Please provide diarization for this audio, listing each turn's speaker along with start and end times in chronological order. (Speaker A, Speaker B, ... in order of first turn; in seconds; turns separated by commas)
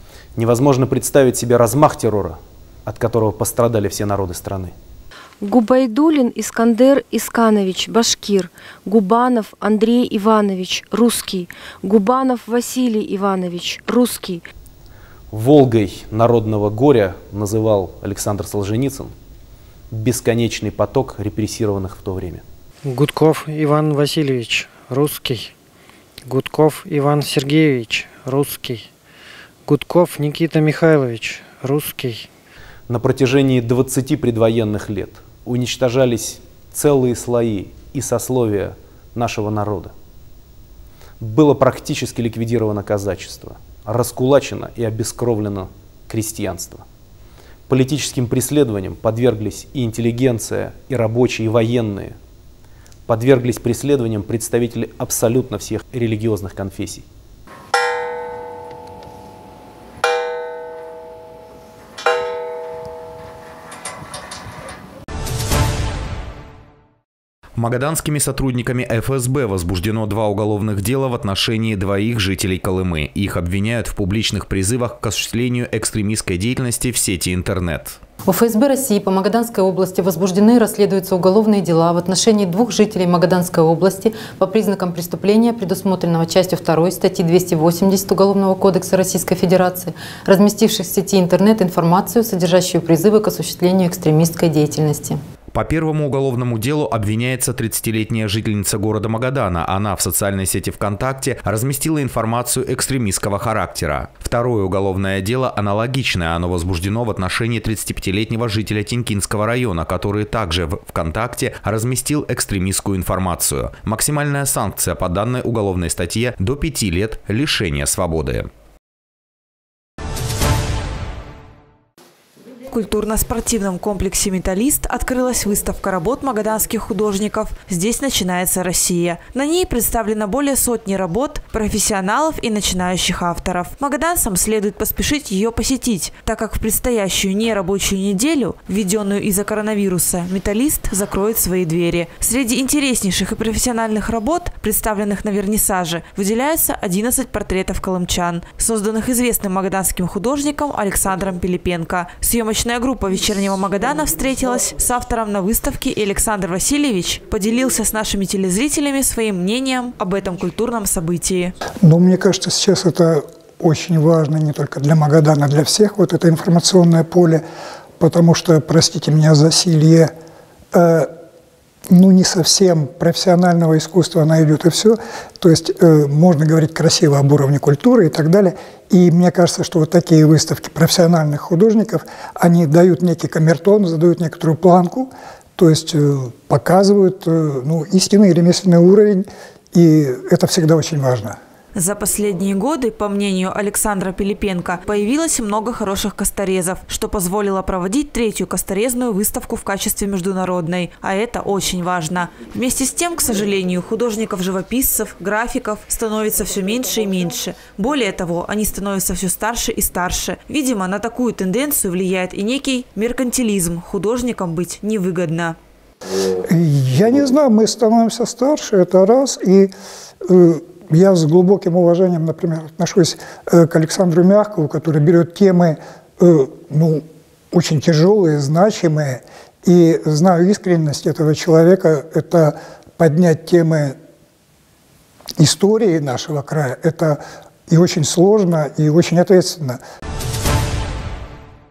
Speaker A: 0.4-4.7, Speaker B: 5.4-14.4, Speaker A: 15.3-19.1, Speaker A: 19.9-22.4, Speaker C: 22.9-25.5, Speaker C: 26.3-28.9, Speaker C: 29.7-32.2, Speaker A: 32.9-39.9, Speaker A: 41.2-46.8, Speaker A: 47.7-52.2, Speaker A: 53.1-57.1, Speaker D: 67.6-78.0, Speaker E: 78.2-95.2, Speaker D: 95.5-118.5, Speaker F: 122.7-161.5, Speaker G: 161.8-167.4, Speaker G: 168.0-170.1, Speaker G: 170.7-171.1, Speaker G: 171.9-191.4, Speaker F: 191.8-215.6, Speaker G: 216.4-219.7, Speaker G: 220.3-233.9, Speaker G: 235.4-239.8